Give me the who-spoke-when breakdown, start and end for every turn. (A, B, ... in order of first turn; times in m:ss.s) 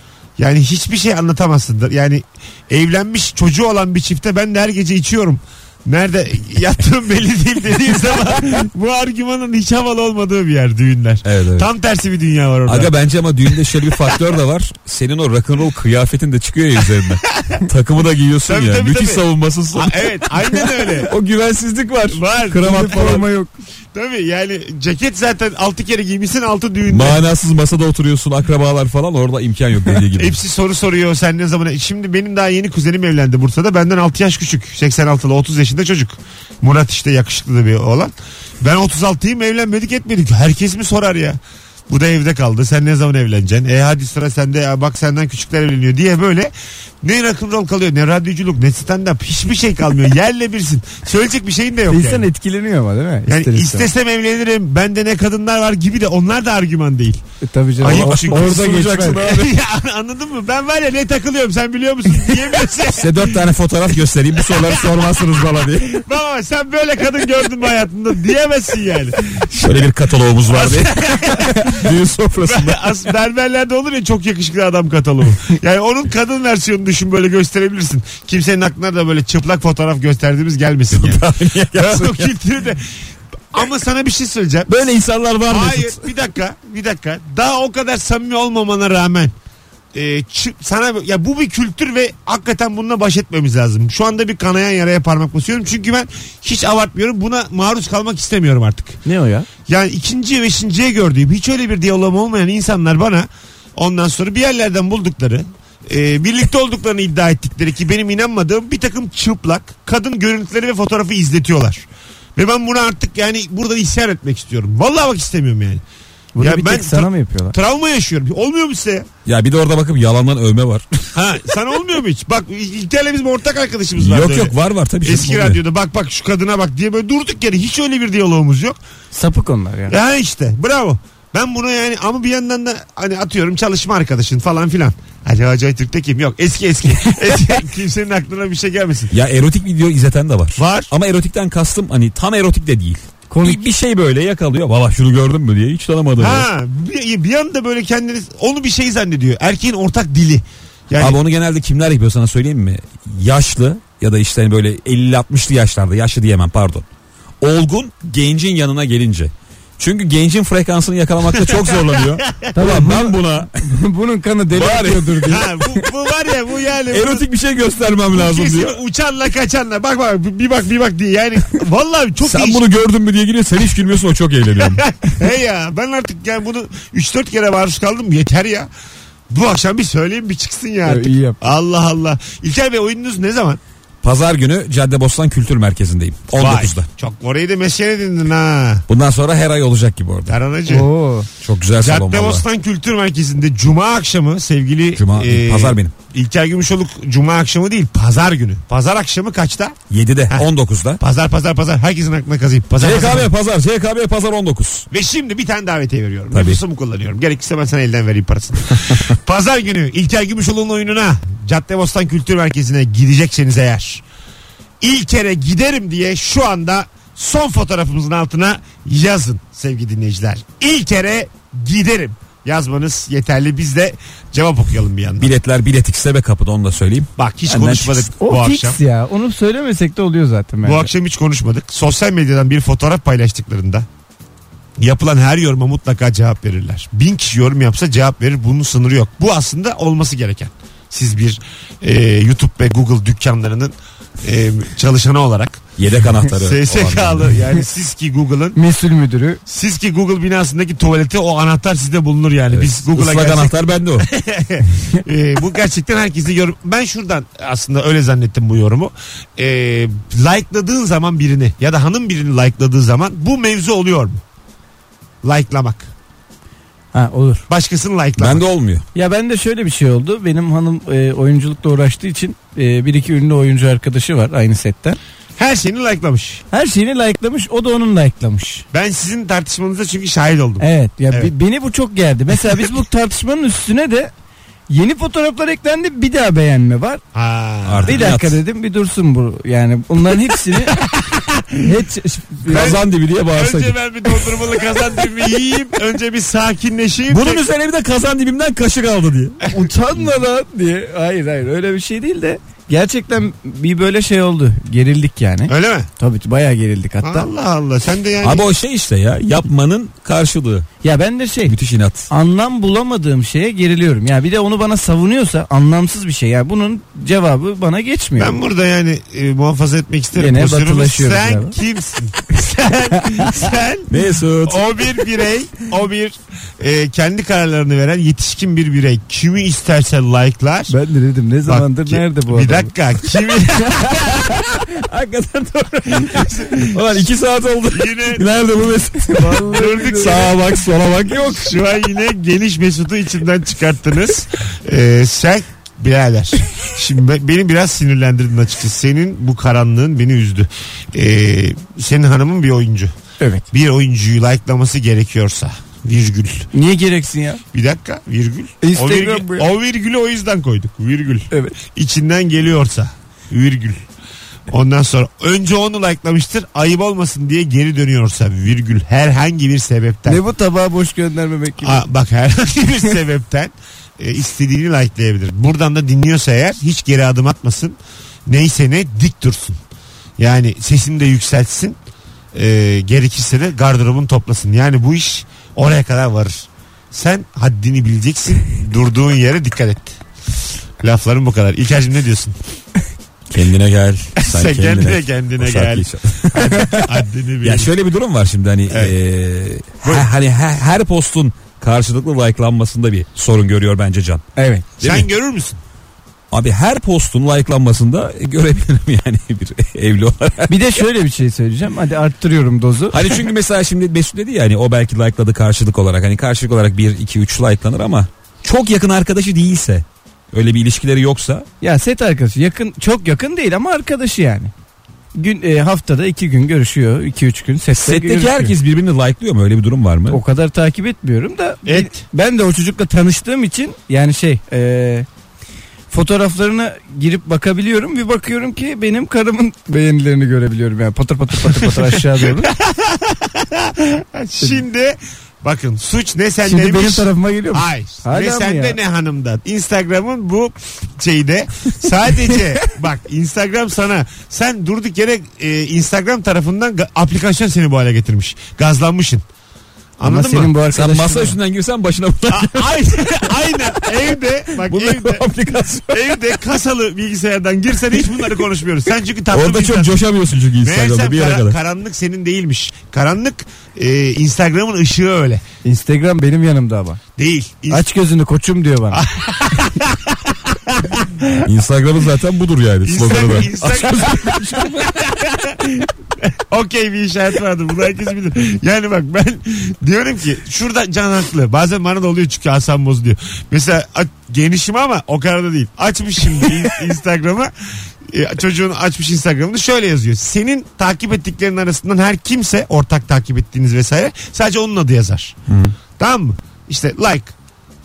0:00.4-0:12.9 A
0:11.2-0:11.7 B
0:12.6-0:20.2 B
0:13.5-0:14.2 A
0:18.5-0:21.1 A
0:21.1-0:23.5 C
0:22.1-0:23.2 A
0:22.5-0:23.3 B
0:23.9-0:27.2 A
0:26.9-0:30.4 B
0:30.2-0:52.3 A
0:51.9-0:53.9 C
0:53.3-0:57.2 A
0:57.4-0:59.2 C
0:57.8-1:03.5 A
0:57.8-0:59.5 B
1:02.9-1:06.0 B
1:04.4-1:09.7 A
1:09.5-1:12.8 B
1:10.5-1:11.9 A
1:12.5-1:22.8 A
1:20.9-1:22.3 B
1:23.5-1:24.7 A
1:24.7-1:26.1 B
1:25.5-1:29.3 A
1:29.9-1:39.0 A
1:39.0-1:39.5 C
1:39.7-1:55.8 A
1:56.3-1:57.5 C
1:56.4-1:59.1 A
1:59.2-2:01.1 B
2:01.1-2:08.8 A
2:04.0-2:05.6 B
2:09.1-2:09.9 C
2:09.9-2:19.1 A
2:19.1-2:26.5 B
2:20.6-2:20.9 A
2:23.3-2:23.6 C
2:26.2-2:31.2 A
2:31.0-2:36.8 B
2:37.4-2:43.6 B
2:41.3-2:42.6 A
2:42.5-2:45.8 C
2:44.5-2:45.4 B
2:45.2-2:47.2 A
2:46.9-2:48.8 B
2:48.1-2:52.6 A
2:52.2-2:54.8 B
2:54.6-2:58.7 A
2:59.3-3:03.6 A
3:00.8-3:01.4 C
3:04.0-3:06.9 B
3:06.4-3:08.8 A
3:08.9-3:10.3 B
3:10.3-3:10.9 A
3:10.7-3:11.3 C
3:11.4-3:12.4 B
3:11.8-3:19.8 A
3:15.0-3:15.9 B
3:19.9-3:21.0 B
3:21.0-3:23.3 A
3:22.8-3:24.9 B
3:24.9-3:34.0 A
3:26.3-3:26.6 B
3:34.8-3:45.3 A
3:45.2-3:48.1 B
3:47.2-3:48.8 A
3:48.2-3:50.9 C
3:50.6-3:53.8 A
3:54.8-4:05.6 A
4:05.8-4:07.4 B
4:06.3-4:08.6 A
4:08.5-4:09.4 C
4:09.4-4:24.2 A
4:12.5-4:14.1 B
4:25.2-4:25.9 A
4:26.9-4:27.4 C
4:27.5-4:28.4 A
4:28.2-4:28.8 B
4:28.9-4:35.0 C
4:35.4-4:36.4 A
4:36.5-4:38.6 C
4:38.7-4:41.3 A
4:40.6-4:44.1 C
4:44.7-4:47.0 C
4:47.1-4:48.1 A
4:47.6-4:48.4 B
4:47.9-4:50.8 C
4:50.6-4:51.7 A
4:51.5-4:52.8 C
4:52.4-4:53.8 B
4:52.5-4:57.4 A
4:57.1-4:59.4 B
4:59.5-5:07.3 C
5:05.5-5:05.9 A
5:07.0-5:08.4 A
5:08.2-5:10.7 B
5:10.8-5:11.5 C
5:11.5-5:12.1 B
5:12.1-5:18.3 C
5:18.2-5:23.9 A
5:20.2-5:21.6 C
5:23.9-5:24.6 B
5:24.4-5:30.7 A
5:30.7-5:32.7 C
5:31.4-5:34.4 A
5:34.4-5:41.5 B
5:36.0-5:37.0 A
5:37.7-5:38.3 A
5:39.1-5:40.3 C
5:39.3-5:40.4 A
5:41.3-5:52.9 A
5:53.2-5:53.4 C
5:53.5-5:56.5 A
5:56.5-5:57.4 C
5:57.5-6:03.8 A
5:58.6-5:59.5 C
6:04.5-6:10.2 A
6:10.0-6:11.8 C
6:11.6-6:19.6 A
6:20.2-6:21.8 A
6:22.3-6:30.0 A
6:30.8-6:32.4 A
6:33.3-6:36.8 B
6:34.2-6:37.7 A
6:37.4-6:44.2 B
6:38.7-6:38.9 A
6:39.8-6:40.1 A
6:44.4-6:44.6 C
6:44.8-6:45.1 B
6:44.8-6:45.6 A
6:46.3-6:50.5 B
6:50.5-6:53.2 C
6:52.9-7:01.4 B
7:01.6-7:04.5 C
7:05.1-7:08.5 C
7:07.8-7:10.2 B
7:10.1-7:15.1 C
7:11.6-7:12.0 A
7:15.9-7:22.5 C
7:21.5-7:39.2 A
7:26.4-7:28.8 C
7:40.0-7:40.5 A
7:40.0-7:41.4 C
7:40.7-7:43.9 B
7:42.3-7:45.2 A
7:44.6-7:46.3 B
7:45.9-7:50.0 A
7:49.3-7:51.6 B
7:50.6-7:55.4 A
7:55.6-7:57.0 C
7:57.2-7:57.9 A
7:57.7-7:59.0 C
7:58.9-8:01.4 A
8:01.4-8:04.2 B
8:02.8-8:17.5 A
8:03.9-8:04.7 C
8:18.0-8:25.3 A
8:25.5-8:25.7 B
8:26.0-8:27.3 A